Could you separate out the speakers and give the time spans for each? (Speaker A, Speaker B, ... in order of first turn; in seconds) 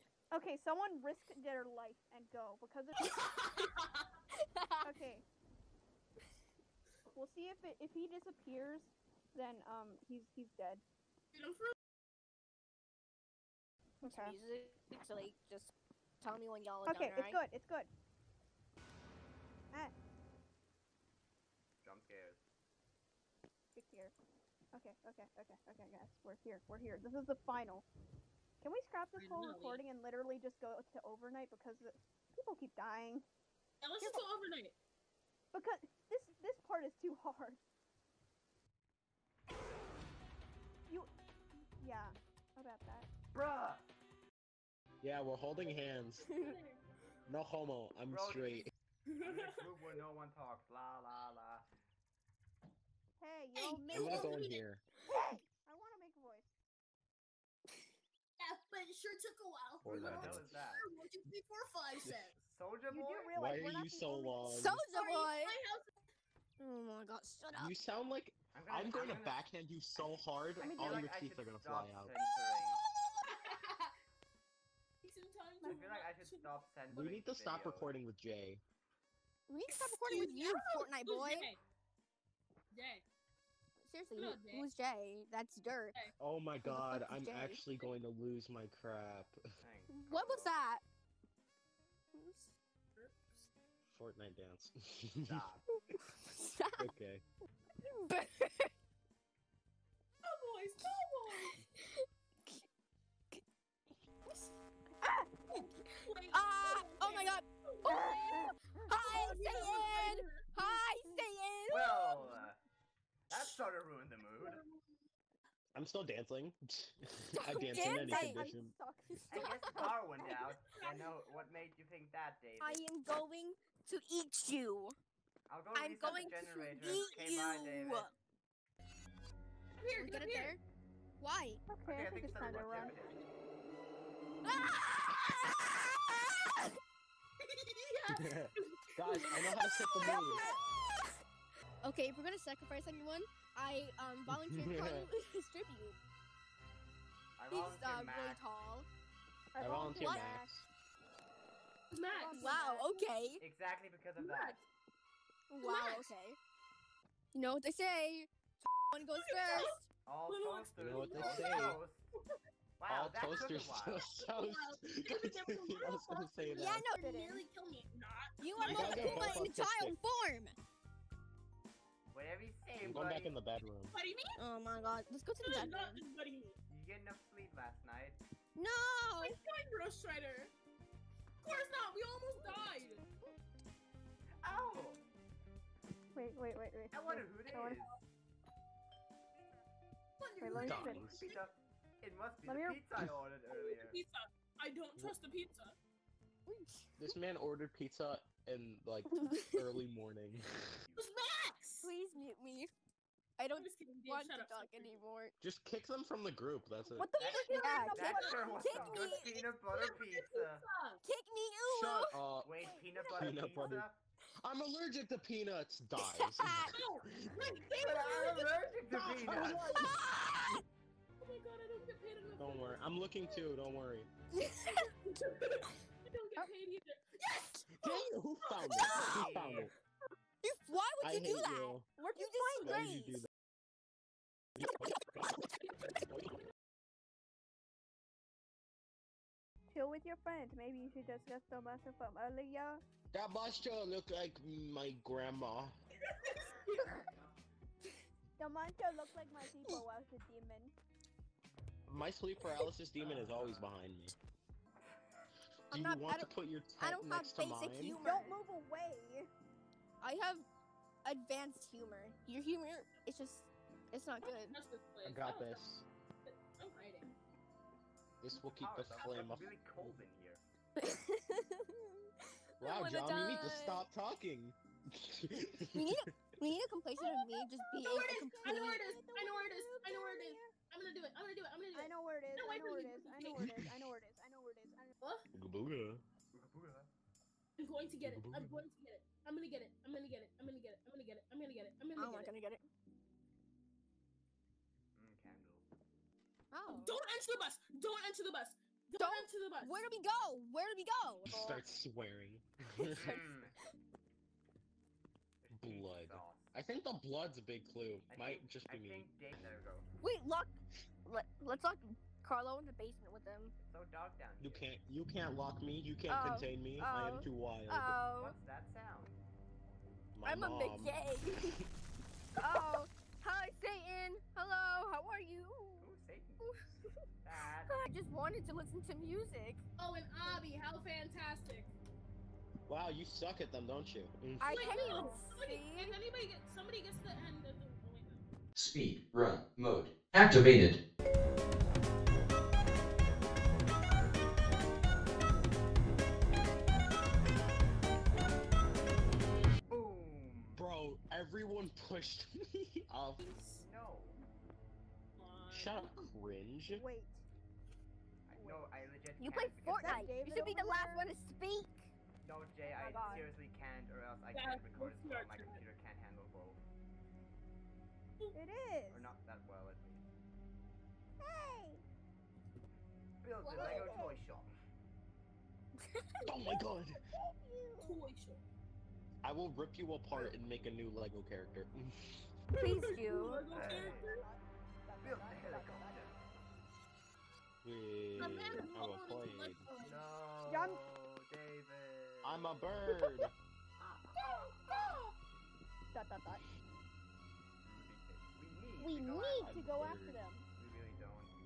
Speaker A: 0.3-3.1, 4.8-5.2, 7.1-10.8, 14.0-14.3, 16.8-17.9, 23.7-24.1, 24.7-27.9, 28.6-33.2, 34.0-34.2, 35.5-37.6, 41.8-43.1, 53.2-54.3, 55.1-56.5, 62.9-64.7, 70.6-71.1, 105.0-105.3, 107.9-108.9, 110.0-111.2, 117.5-120.0, 131.7-132.9, 140.0-140.6, 149.5-150.5, 152.1-153.1, 167.0-167.4, 186.1-187.8, 190.4-191.1, 192.4-192.8, 207.4-208.9, 232.0-232.8, 239.7-242.8, 248.4-250.7, 258.0-259.3, 277.9-280.5, 281.7-284.9, 334.5-335.3, 356.7-357.2, 358.3-358.9, 359.7-361.1, 368.3-369.1, 371.2-371.8, 373.6-374.2, 376.9-378.0, 383.5-386.1, 390.4-390.8, 395.9-396.4, 398.8-400.5
Speaker B: 3.2-3.6, 4.3-4.9, 14.0-17.4, 46.3-46.6, 53.6-54.1, 64.5-65.6, 66.6-67.7, 79.5-81.5, 83.8-86.1, 86.6-87.6, 89.9-90.8, 92.1-92.5, 95.7-96.9, 97.9-98.7, 101.3-102.7, 104.3-104.5, 105.1-108.3, 108.9-112.2, 117.3-118.4, 119.1-119.9, 122.6-125.0, 125.7-128.1, 129.9-130.6, 131.2-131.6, 134.4-136.7, 139.2-140.4, 141.8-145.9, 147.5-148.9, 149.9-150.3, 152.3-153.4, 155.5-156.4, 157.3-158.3, 158.9-159.8, 166.5-167.0, 168.4-170.6, 174.4-176.0, 178.6-179.4, 196.5-196.9, 199.3-199.6, 201.8-202.7, 203.4-205.3, 207.0-209.4, 211.0-212.2, 212.9-213.7, 216.0-216.8, 219.7-220.6, 224.3-224.9, 227.3-227.7, 230.4-233.2, 255.7-258.4, 260.0-260.5, 261.0-264.6, 270.8-273.9, 275.7-279.0, 292.0-292.6, 296.5-297.0, 299.0-301.6, 302.8-303.2, 310.0-313.5, 316.1-318.4, 320.2-321.6, 322.4-327.0, 327.7-329.6, 334.4-336.0, 359.2-361.9, 362.6-363.3, 375.9-376.2, 382.6-383.6, 392.9-393.3
Speaker C: 3.4-4.1, 11.3-11.7, 29.2-29.8, 33.8-34.8, 46.3-46.8, 49.1-49.7, 53.5-54.6, 58.4-62.3, 64.9-65.9, 73.3-73.9, 75.0-76.5, 79.7-81.6, 82.7-83.0, 84.2-84.7, 100.2-101.5, 105.5-110.4, 112.2-112.5, 114.3-115.0, 120.6-121.2, 129.8-130.6, 132.5-133.2, 137.4-139.6, 151.9-152.6, 154.2-154.6, 155.6-156.0, 159.1-161.7, 164.0-169.4, 173.9-174.4, 175.4-176.6, 179.2-180.5, 181.4-183.0, 187.5-187.9, 190.2-191.4, 193.5-195.8, 201.0-201.9, 203.5-205.0, 208.2-208.5, 209.1-211.0, 216.7-218.6, 221.2-223.4, 225.0-227.1, 228.4-229.3, 246.1-246.9, 264.2-265.6, 266.2-267.1, 277.0-283.4, 287.6-292.3, 296.7-299.8, 329.8-331.7, 334.5-338.2, 353.2-353.6, 355.2-355.9, 364.3-365.6, 373.4-374.0, 376.1-376.6, 377.8-378.4, 382.5-384.2, 388.2-390.0, 394.2-395.1
Speaker D: 21.8-22.4, 43.3-43.9, 48.1-51.7, 59.9-60.9, 62.4-63.3, 68.5-69.4, 70.6-72.8, 75.6-78.0, 89.6-90.5, 95.2-95.6, 111.7-112.6, 113.3-114.6, 119.3-122.8, 125.5-128.1, 131.8-133.2, 147.4-148.5, 153.4-154.6, 160.1-162.1, 162.8-164.1, 168.6-169.4, 172.1-173.3, 176.7-178.2, 184.4-185.0, 186.9-188.0, 191.2-194.0, 200.9-201.2, 207.1-210.6, 212.3-214.0, 217.8-219.7, 228.7-229.7, 253.0-253.7, 268.3-270.4, 286.3-286.9, 294.9-295.6, 303.0-303.5, 305.4-306.5, 308.1-309.9, 313.6-314.7, 318.1-319.2, 325.8-326.5, 327.2-327.8, 349.7-350.6, 353.6-354.2, 358.3-360.1, 362.2-366.6, 368.9-370.0, 373.2-374.5, 383.5-384.1, 385.0-386.2, 389.8-392.6, 393.8-394.9, 397.6-399.5, 400.6-401.3
Speaker E: 45.0-46.2, 47.3-48.7, 53.9-54.8, 59.8-60.4, 63.3-64.8, 67.5-72.1, 76.9-78.6, 86.2-89.4, 93.9-95.5, 96.8-97.2, 115.7-118.7, 138.1-140.5, 144.3-145.1, 149.6-150.7, 160.8-161.8, 162.9-166.8, 168.7-170.0, 172.8-173.9, 190.6-191.2, 197.0-200.8, 205.4-207.1, 211.7-212.5, 213.1-213.9, 214.4-217.3, 218.9-220.0, 222.4-224.1, 227.7-229.7, 231.0-231.8, 232.6-233.3, 234.6-235.3, 236.0-236.3, 243.1-245.7, 251.9-254.2, 255.7-258.0, 265.0-265.8, 268.2-270.0, 272.6-276.1, 283.4-283.7, 285.3-286.0, 288.0-288.6, 301.2-303.1, 305.6-309.1, 314.4-317.9, 320.1-321.6, 332.7-334.5, 350.5-353.2, 355.5-356.8, 376.2-377.0, 379.2-382.3, 387.6-389.7, 392.2-393.3, 399.4-400.2
Speaker F: 338.6-340.8